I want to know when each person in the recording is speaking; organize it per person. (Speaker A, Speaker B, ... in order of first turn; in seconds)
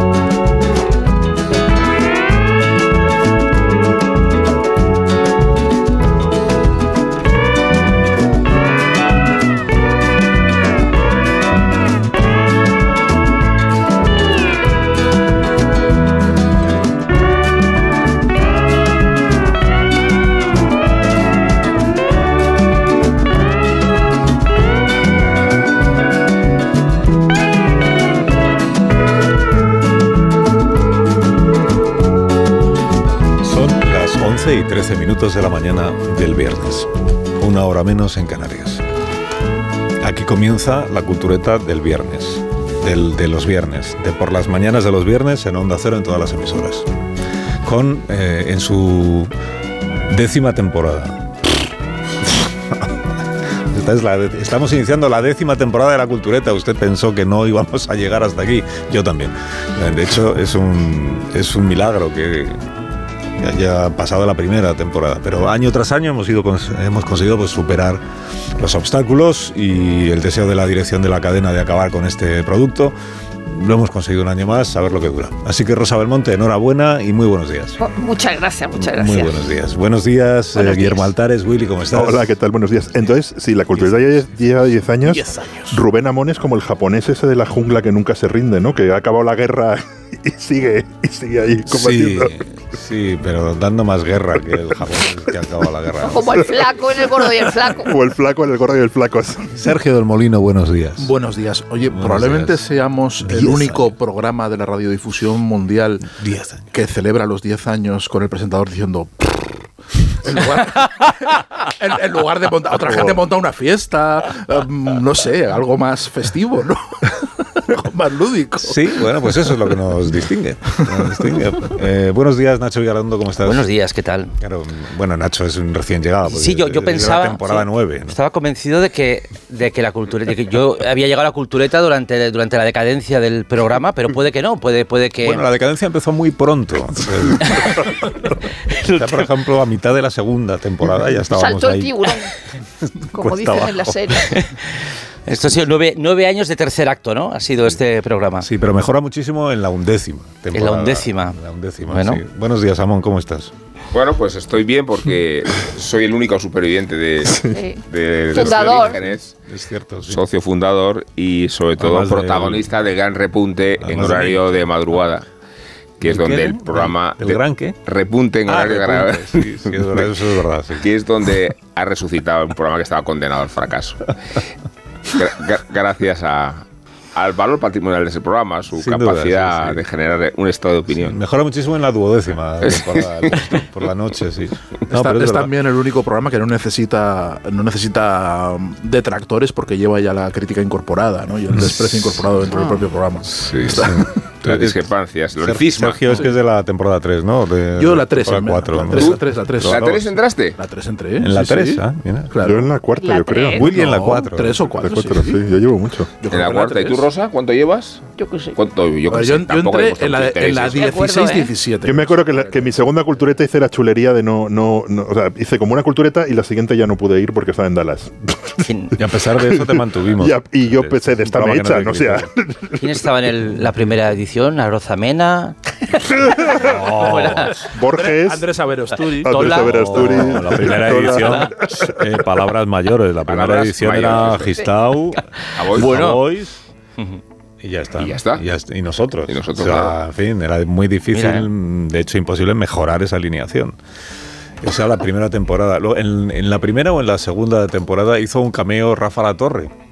Speaker A: 33.4-38.8, 40.0-46.9, 47.6-49.3, 50.1-51.7, 52.2-62.6, 63.4-68.0, 68.6-77.8, 78.7-82.3, 91.7-96.4, 99.5-101.1, 101.9-102.6, 103.2-103.9, 106.2-106.7, 118.6-123.7, 124.4-128.2, 135.2-142.1, 143.0-144.3, 148.4-153.5, 158.3-160.2, 161.8-162.6, 163.8-164.8, 166.0-167.8, 168.4-170.9, 178.7-179.8, 180.9-185.5, 191.5-192.2, 193.5-194.8, 195.4-200.1, 201.2-202.3, 203.5-204.7, 219.0-222.3, 226.6-227.7, 229.5-236.6, 237.6-243.8, 244.6-249.7
Speaker B: 77.8-79.3, 80.5-81.0, 96.0-98.0, 141.3-142.3, 143.1-144.4, 157.5-158.9, 203.0-203.6, 208.2-208.6, 210.8-211.5
Speaker C: 81.9-92.3, 96.5-99.6, 157.2-157.6, 202.4-203.7, 204.8-206.1, 211.8-223.1, 227.6-228.5, 229.2-232.1
Speaker D: 85.0-85.8, 101.0-106.1, 106.7-119.6, 184.9-194.1, 197.7-199.9, 200.6-202.8, 203.6-205.4, 206.2-207.1, 209.1-212.4, 227.9-229.7, 230.8-231.3
Speaker E: 123.4-124.3, 126.2-135.4, 138.7-139.1, 145.3-148.5, 150.5-151.4, 151.9-152.2, 218.6-218.9, 222.8-225.6, 226.4-227.6, 229.2-230.4, 235.7-236.2, 241.1-241.5
Speaker F: 153.9-159.3, 160.1-165.2, 166.0-170.1, 170.8-174.4, 175.1-181.2, 182.6-183.5, 193.4-196.2, 198.9-200.6, 206.3-210.9, 233.2-234.6, 235.5-236.1, 238.0-238.4, 239.3-239.9